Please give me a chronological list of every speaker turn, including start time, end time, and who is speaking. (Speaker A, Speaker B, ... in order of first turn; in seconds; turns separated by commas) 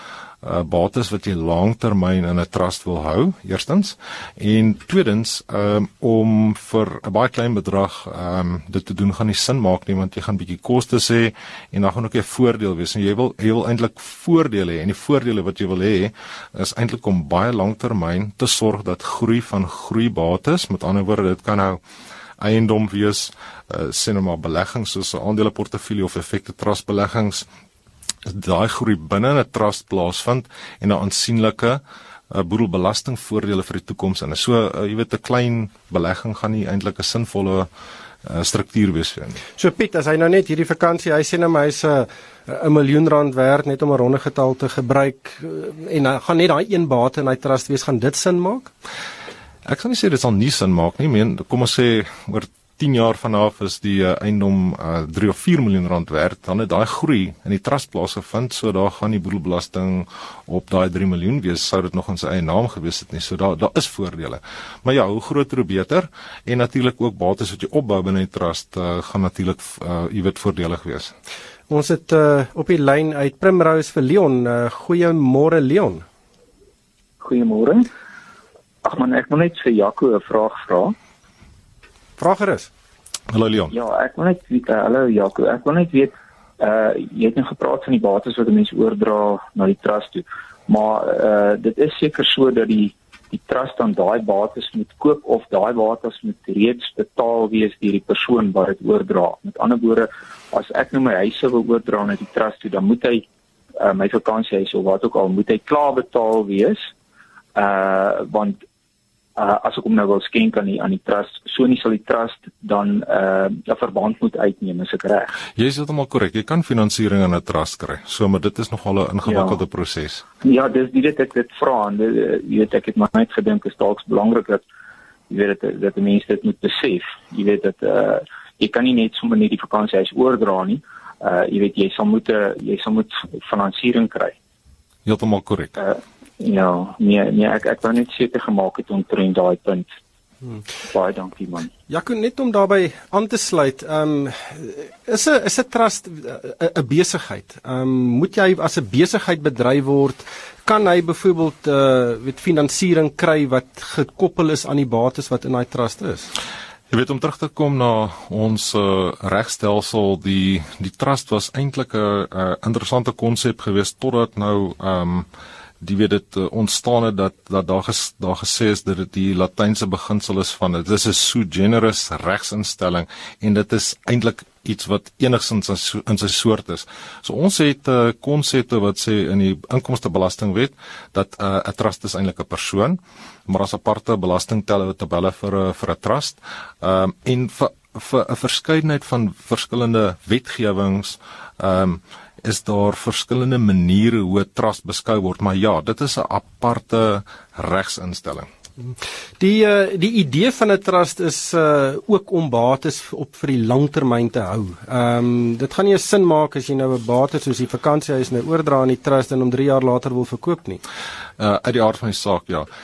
Speaker A: 0.4-21.8, Speaker A: 22.4-27.5, Speaker A: 28.2-37.7, Speaker A: 38.2-39.4, Speaker B: 39.6-48.7, Speaker A: 49.6-71.1, Speaker B: 71.7-76.0, Speaker C: 77.2-77.8, Speaker C: 78.8-80.9, Speaker B: 82.2-82.7, Speaker A: 83.3-83.7, Speaker C: 83.7-103.2, Speaker C: 103.8-106.8, Speaker C: 107.5-108.6, Speaker C: 109.4-115.3, Speaker A: 115.5-120.2, Speaker C: 119.2-119.6, Speaker C: 120.4-124.6, Speaker C: 125.3-134.3, Speaker A: 135.0-135.8, Speaker C: 135.8-139.8, Speaker C: 140.9-141.7, Speaker B: 141.9-156.3, Speaker A: 156.9-165.3, Speaker A: 165.8-198.5, Speaker B: 198.8-210.8, Speaker A: 211.4-212.7